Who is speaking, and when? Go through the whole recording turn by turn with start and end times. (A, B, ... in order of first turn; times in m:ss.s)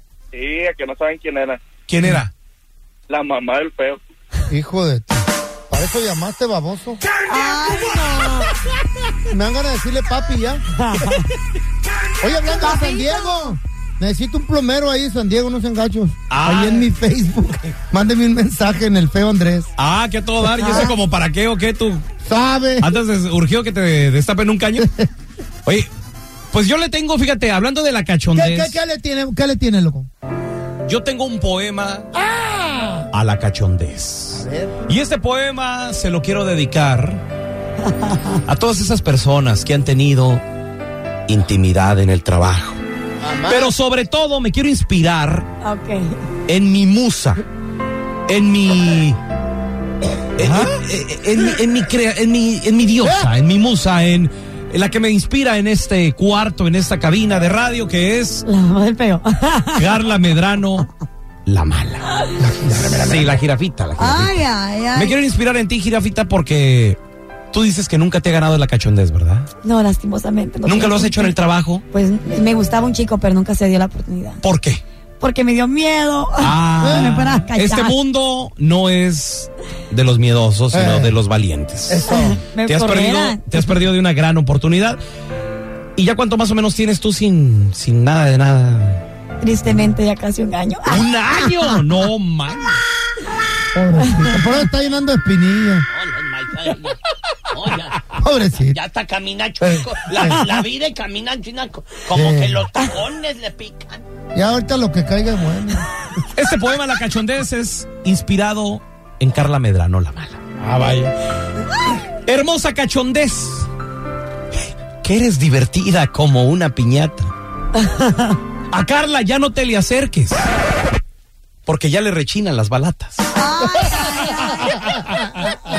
0:00.3-0:01.6 A
0:01.9-0:02.3 B
0:03.1-0:04.0 A
0:04.5-0:07.0 C
0:07.3-0:08.5 D
0:09.3-0:10.6 C
0:10.8-0:11.2 D
0:12.2-0:19.7 C
0:12.4-0:13.6 D
0:16.3-0:16.9 B
0:19.8-0:22.0 B
0:20.5-0:21.0 D
0:22.2-0:22.9 C
0:22.8-0:24.9 B
0:24.8-0:25.1 C
0:26.5-0:28.8 B
0:28.3-0:30.1 C
0:30.9-0:32.1 B
0:32.1-0:33.1 C
0:33.1-0:37.2 B
0:34.3-0:34.8 C
0:38.3-0:40.4 B
0:41.3-0:42.8 B
0:43.2-0:43.7 C
0:43.5-0:45.5 B
0:45.6-0:46.2 D
0:46.5-0:47.4 B
0:48.3-0:49.2 B
0:50.4-0:58.4 B
0:50.4-0:50.7 C
0:53.0-0:53.3 C
0:58.4-0:59.9 D
0:59.8-1:00.9 B
1:01.5-1:02.0 B
1:02.4-1:03.4 C
1:02.8-1:07.0 B
1:04.0-1:05.2 D
1:07.5-1:09.5 B
1:09.6-1:11.4 D
1:10.6-1:11.8 B
1:11.9-1:14.4 D
1:14.4-1:14.8 B
1:15.2-1:18.0 D
1:16.4-1:22.1 B
1:16.8-1:17.2 C
1:20.7-1:21.2 C
1:21.9-1:22.5 C
1:22.1-1:23.8 D
1:22.6-1:25.0 B
1:26.0-1:29.0 B
1:29.4-1:31.7 D
1:30.9-1:32.8 B
1:33.7-1:35.9 C
1:34.0-1:34.3 D
1:35.9-1:37.0 E
1:37.5-1:44.0 E
1:38.2-1:38.8 C
1:39.6-1:40.4 C
1:42.1-1:42.7 C
1:44.3-1:45.9 C
1:46.3-1:51.1 B
1:52.3-1:53.7 B
1:55.0-1:57.3 B
1:57.8-1:58.4 D
1:58.7-2:00.5 B
2:01.7-2:03.3 B
2:03.3-2:04.8 D
2:03.7-2:05.2 C